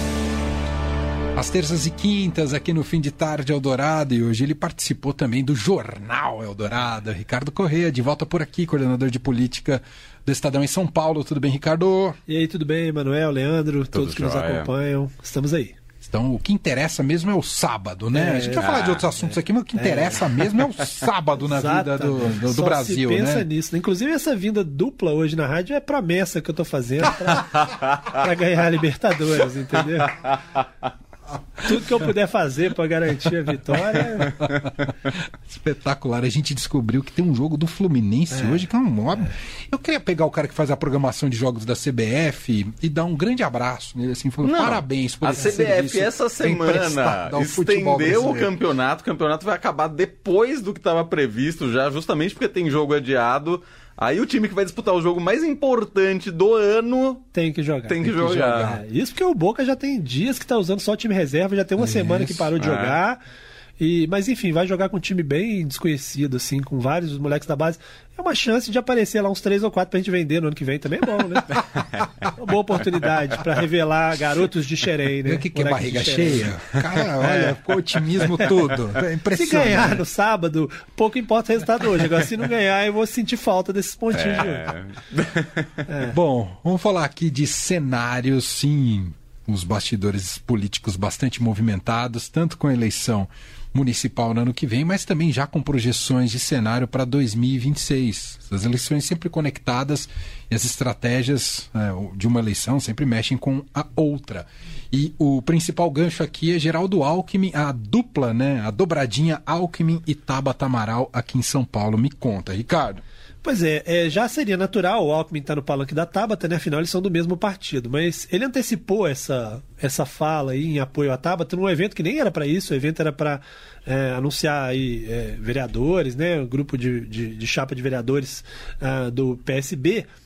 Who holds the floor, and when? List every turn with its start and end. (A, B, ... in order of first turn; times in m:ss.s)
0:01.4-0:12.2 A
0:12.3-0:15.8 B
0:13.9-0:14.7 C
0:16.0-0:23.5 A
0:18.1-0:20.3 B
0:18.6-0:19.0 C
0:21.4-0:30.3 B
0:31.6-0:34.4 B
0:34.2-0:48.5 A
0:38.3-0:38.7 B
0:44.4-0:57.2 C
0:57.3-1:03.2 B
0:57.9-0:58.8 C
1:01.8-1:02.5 A
1:02.6-1:03.0 C
1:03.8-1:11.5 B
1:12.4-1:16.5 B
1:15.2-1:20.0 A
1:17.2-1:17.6 B
1:19.3-1:24.8 B
1:24.1-1:25.7 C
1:25.9-1:26.2 B
1:26.1-1:53.0 A
1:53.4-2:10.1 B